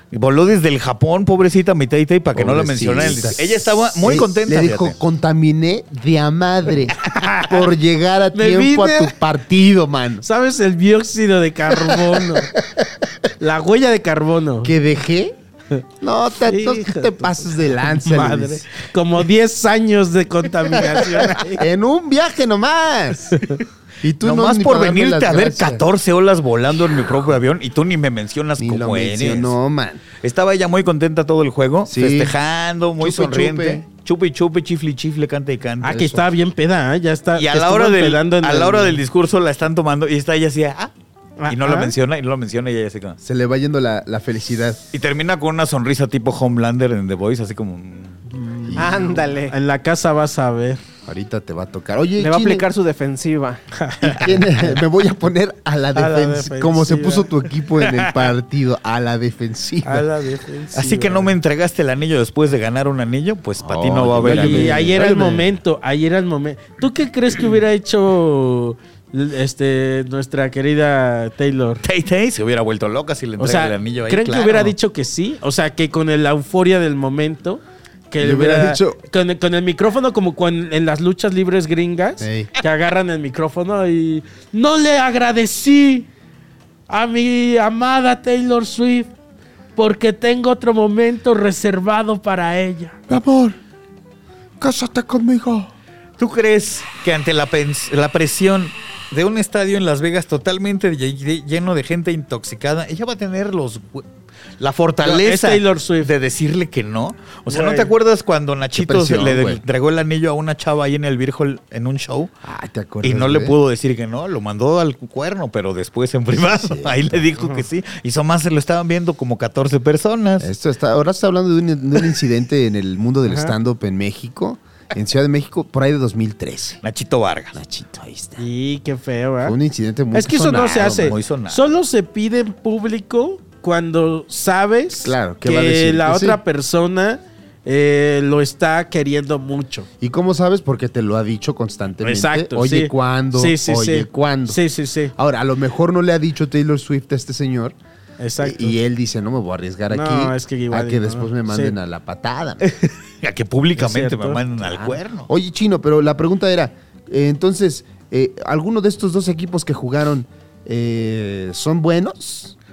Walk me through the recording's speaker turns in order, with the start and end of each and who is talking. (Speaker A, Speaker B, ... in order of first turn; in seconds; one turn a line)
Speaker A: 0.1-5.0
Speaker B: 2.3-10.2
Speaker C: 7.0-7.6
Speaker C: 8.3-9.1
Speaker C: 10.2-12.5
Speaker B: 11.7-13.1
Speaker C: 13.4-14.7
Speaker B: 14.6-15.3
Speaker B: 16.0-18.7
Speaker C: 16.4-21.6
Speaker B: 20.7-23.4
Speaker B: 24.0-25.8
Speaker A: 24.2-29.6
Speaker B: 28.6-30.0
Speaker A: 30.2-36.1
Speaker B: 31.9-32.3
Speaker B: 33.0-33.9
Speaker C: 35.8-39.0
Speaker B: 35.9-36.2
Speaker A: 37.3-40.9
Speaker C: 41.4-41.9
Speaker A: 41.5-43.2
Speaker B: 43.2-44.8
Speaker A: 44.9-48.2
Speaker C: 48.3-50.8
Speaker B: 48.6-49.2
Speaker D: 48.8-49.5
Speaker B: 51.0-52.6
Speaker D: 52.2-53.6
Speaker C: 53.7-54.8
Speaker B: 54.0-60.1
Speaker C: 55.9-58.1
Speaker C: 59.8-61.3
Speaker A: 60.7-65.0
Speaker B: 63.6-65.5
Speaker C: 64.2-71.8
Speaker A: 71.8-74.7
Speaker C: 73.4-86.1
Speaker B: 78.2-79.0
Speaker B: 82.2-82.5
Speaker C: 86.9-89.1
Speaker C: 89.8-93.0
Speaker B: 93.1-93.5
Speaker B: 94.6-95.7
Speaker A: 96.2-104.0
Speaker A: 104.6-112.3
Speaker C: 105.0-106.1
Speaker C: 107.5-107.9
Speaker B: 108.7-109.6
Speaker B: 112.4-113.5
Speaker A: 113.0-120.5
Speaker B: 116.4-117.2
Speaker B: 120.4-126.8
Speaker C: 123.3-123.5
Speaker A: 126.8-127.6
Speaker B: 127.5-128.5
Speaker C: 128.4-129.6
Speaker B: 129.4-131.2
Speaker C: 130.1-139.9
Speaker A: 130.8-131.7
Speaker B: 135.0-136.4
Speaker B: 140.0-144.6
Speaker C: 142.0-145.1
Speaker B: 145.1-147.8
Speaker C: 148.2-148.8
Speaker B: 148.4-152.7
Speaker C: 149.9-151.8
Speaker A: 153.2-155.3
Speaker C: 153.8-154.4
Speaker B: 154.6-162.5